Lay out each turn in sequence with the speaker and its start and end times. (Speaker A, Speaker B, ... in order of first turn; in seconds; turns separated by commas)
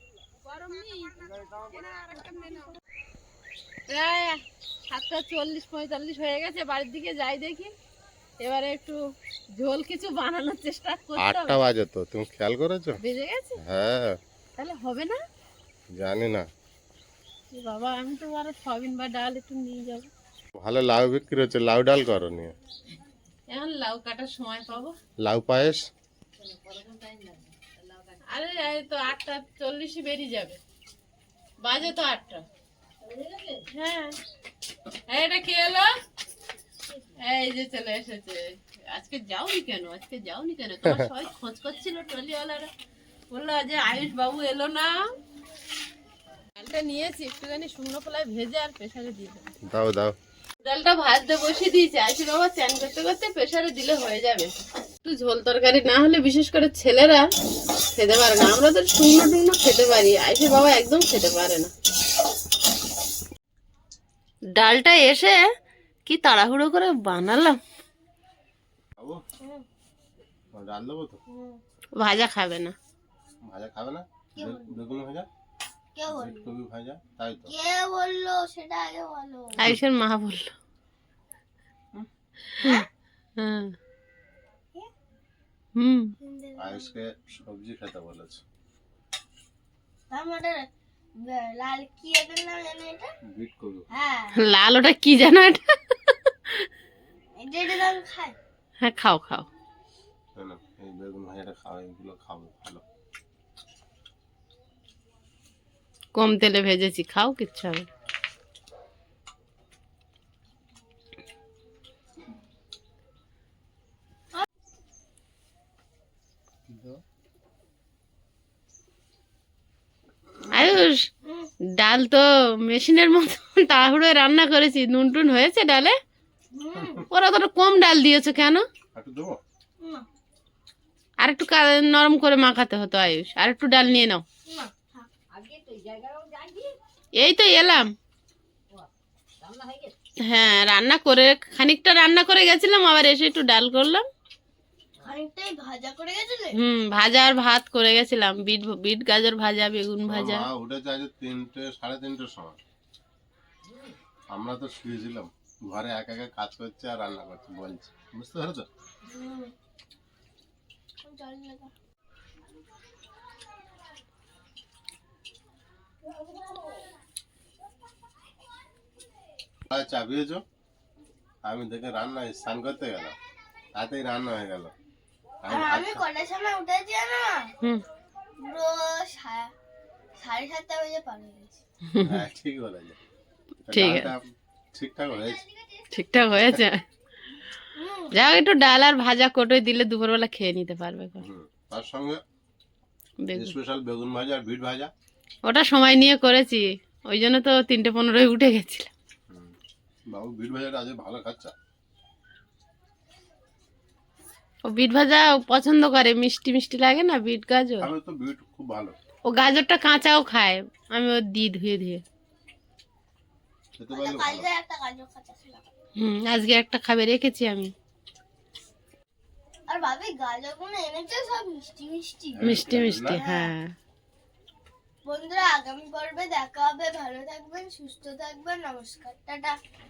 Speaker A: 0.4-2.7, Speaker A: 3.9-7.7, Speaker A: 8.4-9.0, Speaker A: 9.6-11.6, Speaker B: 11.2-13.0, Speaker A: 13.0-13.6, Speaker B: 13.6-14.2, Speaker A: 14.6-15.2, Speaker B: 15.9-16.5, Speaker A: 17.5-20.1, Speaker B: 20.6-22.5, Speaker A: 23.5-24.9, Speaker B: 25.2-25.9, Speaker A: 28.2-30.6, Speaker A: 31.6-32.4, Speaker A: 33.5-34.2, Speaker A: 35.1-35.9, Speaker A: 37.1-42.7, Speaker A: 43.3-45.0, Speaker A: 46.6-49.5, Speaker B: 49.7-50.1, Speaker A: 50.6-57.2, Speaker A: 57.9-61.7, Speaker A: 64.5-65.4, Speaker A: 66.1-67.6, Speaker B: 70.5-71.2, Speaker C: 71.3-71.6, Speaker A: 72.0-72.7, Speaker B: 73.5-75.3, Speaker C: 74.3-74.8, Speaker C: 76.0-76.5, Speaker B: 76.1-77.5, Speaker C: 77.5-79.6, Speaker A: 79.6-80.5, Speaker A: 82.0-82.8, Speaker A: 83.4-83.7, Speaker A: 85.8-86.2, Speaker C: 86.2-86.9, Speaker B: 86.6-88.4, Speaker C: 90.1-90.7, Speaker C: 91.2-93.1, Speaker B: 93.3-93.9, Speaker C: 93.9-94.3, Speaker A: 94.3-95.6, Speaker C: 97.3-98.3, Speaker A: 98.8-99.5, Speaker B: 100.4-102.8, Speaker A: 106.2-107.8, Speaker B: 116.7-117.0, Speaker A: 120.5-121.1, Speaker A: 121.8-126.0, Speaker C: 126.5-127.0, Speaker A: 127.0-128.6, Speaker B: 128.9-129.4, Speaker C: 129.8-130.1, Speaker A: 131.2-134.2, Speaker C: 134.5-135.1, Speaker A: 137.1-137.9, Speaker A: 140.2-144.0, Speaker C: 145.0-146.6, Speaker A: 146.5-150.5, Speaker B: 150.1-152.6, Speaker B: 154.3-158.7, Speaker C: 159.1-159.5, Speaker C: 161.0-161.7, Speaker B: 169.7-170.4, Speaker B: 171.4-173.2, Speaker B: 173.8-174.7, Speaker B: 175.4-176.0, Speaker C: 175.5-177.5, Speaker C: 178.4-179.5, Speaker C: 180.2-181.6, Speaker A: 181.9-182.2, Speaker B: 182.0-183.0, Speaker B: 183.7-185.4, Speaker A: 183.7-184.1, Speaker A: 185.9-186.8, Speaker C: 187.8-188.2, Speaker A: 188.1-191.2, Speaker B: 191.2-192.2, Speaker A: 193.2-193.5, Speaker B: 193.3-194.9, Speaker A: 195.5-198.9, Speaker B: 199.3-199.6, Speaker B: 200.1-201.5, Speaker A: 204.7-207.9, Speaker B: 207.8-209.0, Speaker A: 209.3-212.0, Speaker B: 213.8-214.5, Speaker C: 213.9-215.7, Speaker A: 216.0-217.7, Speaker C: 219.7-222.6, Speaker B: 222.4-223.2, Speaker A: 222.4-223.7, Speaker C: 223.1-223.5, Speaker C: 225.1-229.6